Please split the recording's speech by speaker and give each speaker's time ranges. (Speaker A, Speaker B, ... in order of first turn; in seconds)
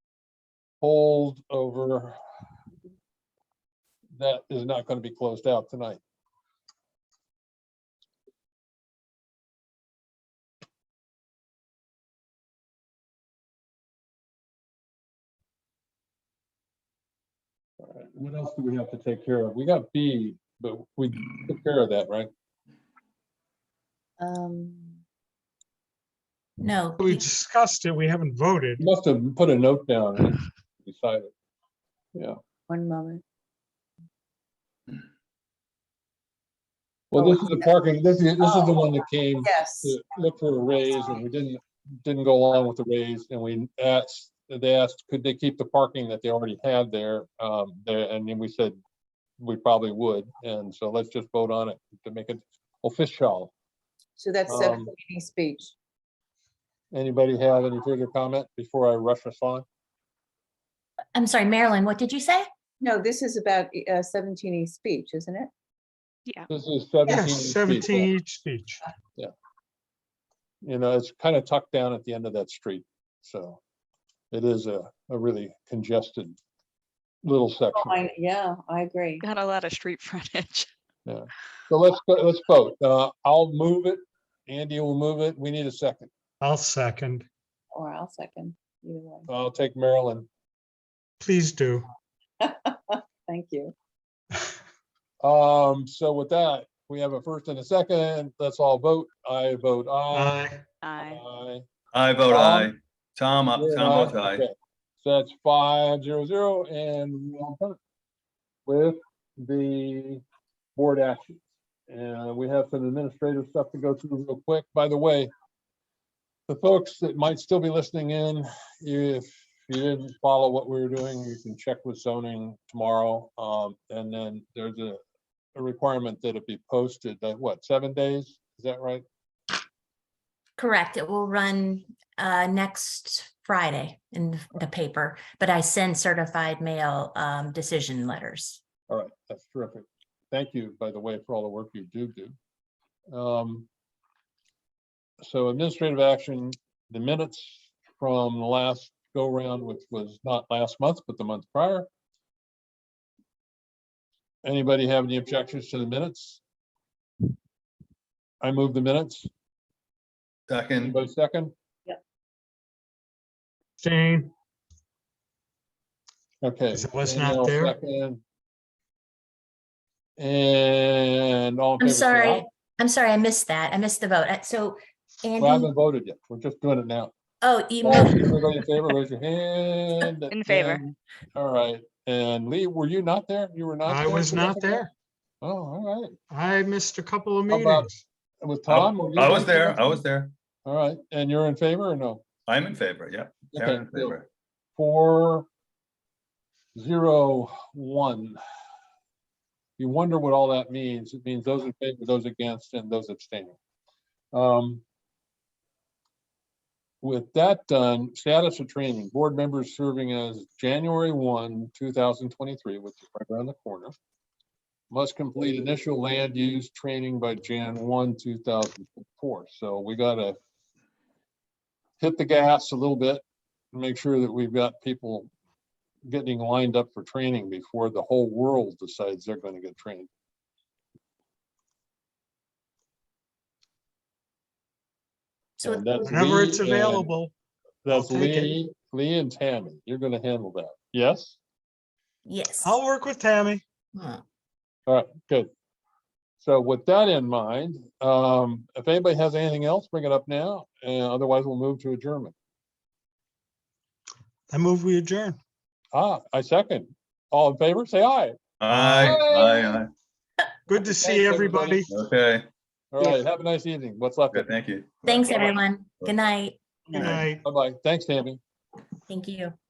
Speaker A: 0.8-2.2, 4.2-6.0, 17.8-22.3, 28.8-31.3, 37.1-48.8, 49.4-53.5, 54.5-54.9, 56.9-59.6, 66.5-68.1, 70.6-73.6, 74.3-76.4, 77.2-78.0, 81.0-86.1, 89.3-90.3, 95.2-100.4, 101.0-101.6, 102.3-102.7, 103.5-107.8, 108.7-110.2, 110.8-115.3, 116.5-125.0, 125.5-129.0, 138.9-142.3, 143.1-143.7, 145.2-151.9, 154.4-156.4, 158.4-159.3, 160.8-161.5, 166.4-168.2, 170.2-172.4, 175.4-177.1, 177.8-184.9, 185.4-186.2, 187.5-190.0, 190.6-192.2, 193.5-194.2, 194.8-195.5, 196.7-198.4, 199.8-203.6, 204.3-204.8, 207.0-213.9, 214.9-220.4, 222.0-225.3, 226.1-230.1, 235.6-237.1, 237.8-241.4, 244.9-245.5, 246.4-252.3, 255.9-258.4, 258.9-259.8, 260.8-261.9, 262.9-264.5, 267.4-268.4
Speaker B: 24.2-25.0, 32.7-33.2, 37.1-37.7, 38.4-38.7, 39.4-40.0, 54.2-55.7, 62.8-65.5, 77.7-79.2, 87.7-89.3, 92.4-93.7
Speaker C: 26.6-27.2, 61.1-62.5, 130.6-138.6, 171.8-175.7, 177.4-178.9, 235.6-236.3, 242.2-242.8, 243.9-244.2, 265.0-266.6, 269.1-269.6
Speaker D: 27.0-28.8, 67.0-68.8, 86.4-87.2, 91.2-91.9, 100.1-100.6, 163.8-164.3, 166.7-167.7, 183.8-184.9, 186.3-188.0, 236.1-237.3, 237.9-238.5, 242.6-243.6, 254.5-255.4, 258.7-259.2, 260.7-261.9, 266.9-267.4
Speaker E: 79.2-80.7, 180.3-180.8
Speaker F: 101.9-104.4, 160.5-161.0, 188.7-190.3, 192.5-194.3, 258.6-259.9, 261.9-262.5, 264.3-266.1, 266.9-267.2